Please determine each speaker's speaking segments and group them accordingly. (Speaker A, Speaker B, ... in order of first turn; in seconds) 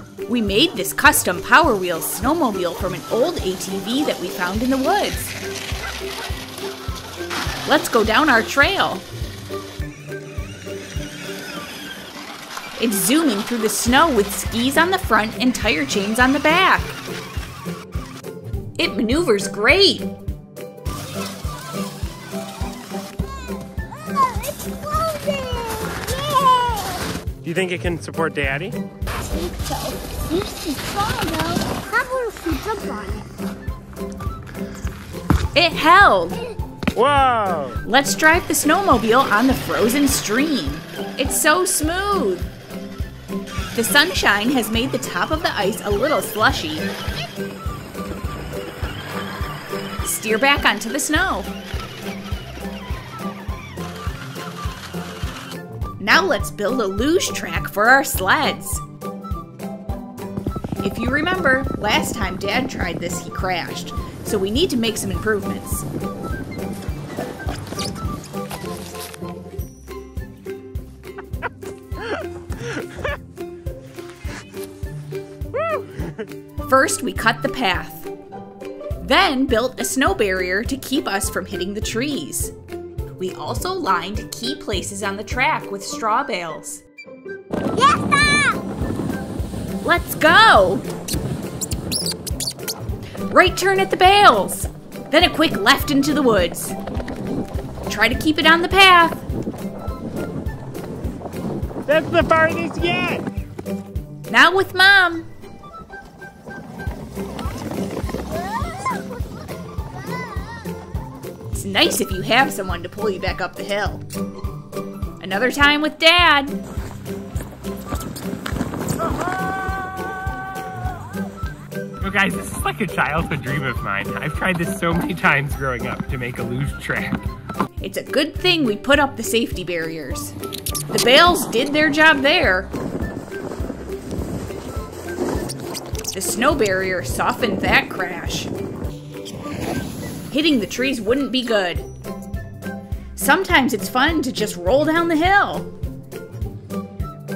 Speaker A: 0.3-5.3, 7.7-9.1, 12.8-17.0, 18.8-20.1, 35.5-36.4, 37.9-42.5, 43.7-46.9, 50.0-51.5, 56.0-58.8, 60.8-65.9, 76.6-78.1, 79.0-82.5, 83.2-86.8, 89.8-90.9, 93.3-96.8, 97.9-99.2, 104.3-105.3, 111.5-114.0, 115.2-116.6, 127.8-130.3, 130.9-132.7, 136.1-138.5, 140.3-141.9, 143.2-145.7
Speaker B: 24.0-27.1, 29.2-33.3, 87.7-88.6
Speaker C: 27.4-28.8, 37.0-37.8, 101.9-103.2, 122.0-127.2